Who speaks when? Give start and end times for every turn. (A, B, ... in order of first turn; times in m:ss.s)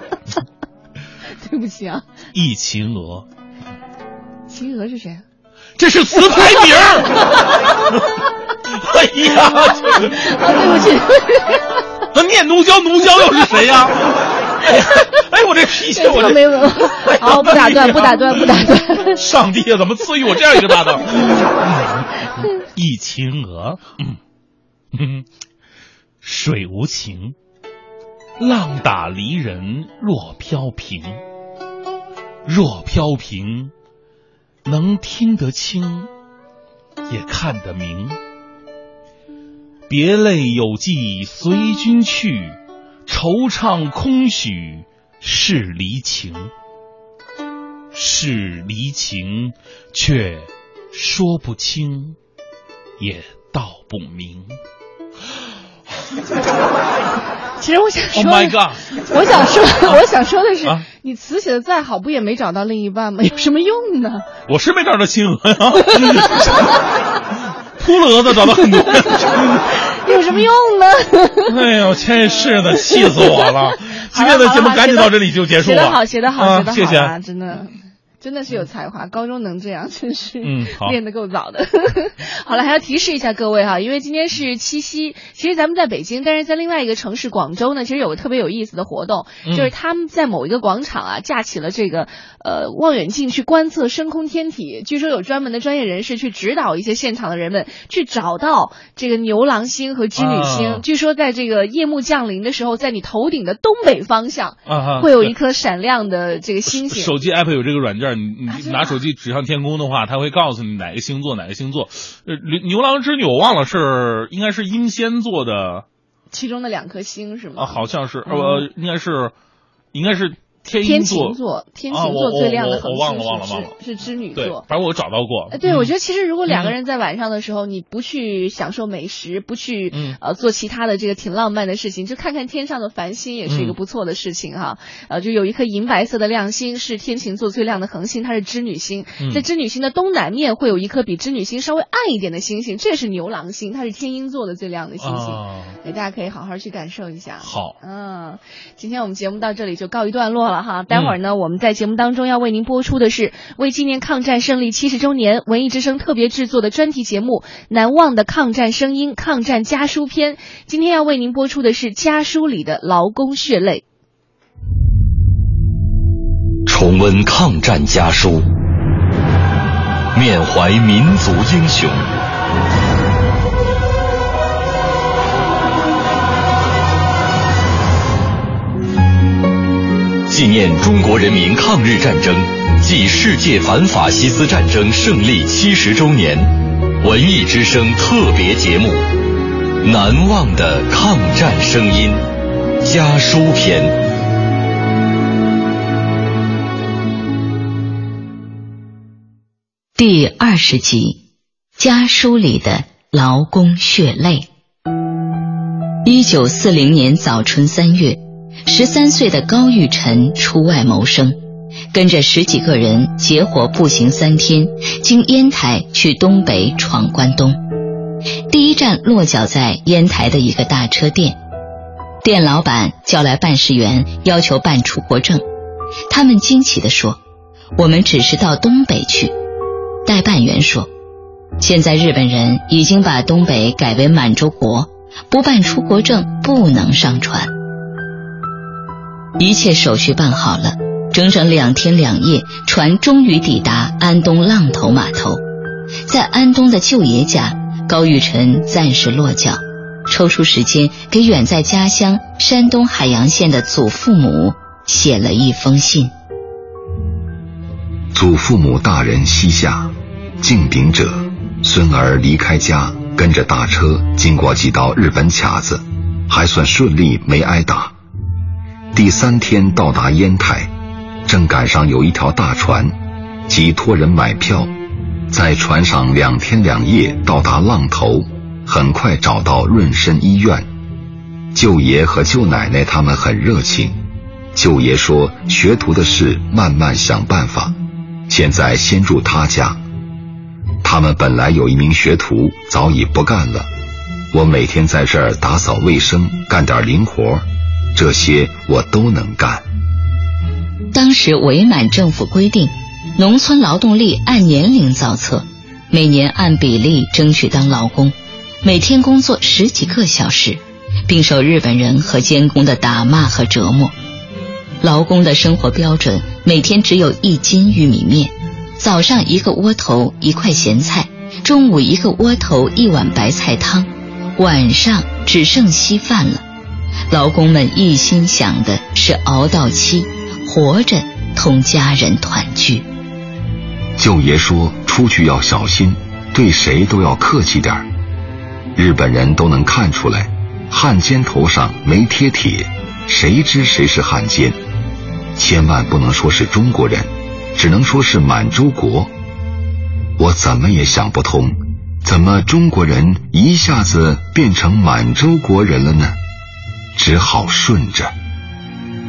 0:01.4-0:02.1 A
0:02.3-0:03.3 B
0:04.5-0:05.2 A
0:05.8-0:08.1 B
0:06.3-0:07.7 A
0:08.6-0:10.6 B
0:09.9-0:11.7 A
0:12.1-0:24.2 B
0:15.9-0:19.2 A
0:24.9-0:25.2 B
0:26.2-0:27.4 B
0:28.4-0:31.2 B
0:32.4-0:33.7 B
0:34.6-0:36.1 B
0:37.1-0:38.2 B
0:39.9-0:46.5 B
0:47.9-0:52.2 B
0:53.0-0:54.5 B
0:57.6-1:04.2 A
0:58.1-1:00.0 B
1:04.5-1:06.8 B
1:05.8-1:06.8 A
1:07.8-1:09.7 B
1:08.5-1:11.5 A
1:11.4-1:17.1 B
1:12.8-1:47.1 A
1:20.4-1:21.0 B
1:29.4-1:29.7 B
1:40.1-1:40.8 B
1:44.7-1:45.3 B
1:46.7-1:55.8 B
1:48.5-1:49.0 A
1:56.3-1:58.6 A
1:57.6-1:59.3 B
1:59.9-2:01.4 B
2:00.8-2:04.6 A
2:01.9-2:03.7 B
2:04.3-2:05.9 B
2:05.5-2:43.8 A
2:06.5-2:06.7 B
2:09.9-2:10.2 B
2:13.5-2:13.8 B
2:19.2-2:19.4 B
2:25.0-2:25.8 B
2:27.4-2:27.8 B
2:30.9-2:31.2 B
2:46.7-2:48.5 C
2:50.1-2:52.1 C
3:00.3-3:09.1 C
3:09.8-3:12.2 C
3:12.8-3:14.0 C
3:20.0-3:21.2 D
3:21.8-3:24.5 D
3:26.0-3:31.4 D
3:31.9-3:37.6 D
3:38.5-3:41.4 D
3:42.2-3:45.4 D
3:46.1-3:47.2 D
3:47.8-3:49.3 D
3:50.0-3:50.9 D
3:51.6-3:57.5 D
3:59.4-4:05.4 D
4:06.0-4:16.1 D
4:18.1-4:27.9 E
4:28.9-4:30.7 E
4:31.2-4:32.9 E
4:33.5-4:34.7 E
4:35.3-4:40.7 E
4:41.5-4:44.0 E
4:44.5-4:47.8 E
4:48.3-4:49.8 E
4:50.8-4:53.7 E
4:54.3-4:59.6 E
5:00.9-5:13.9 D
5:14.8-5:26.4 D
5:27.1-5:32.9 D
5:34.0-5:37.8 E
5:38.7-5:44.6 E
5:45.4-5:49.1 E
5:50.2-5:56.2 E
5:57.0-5:58.1 E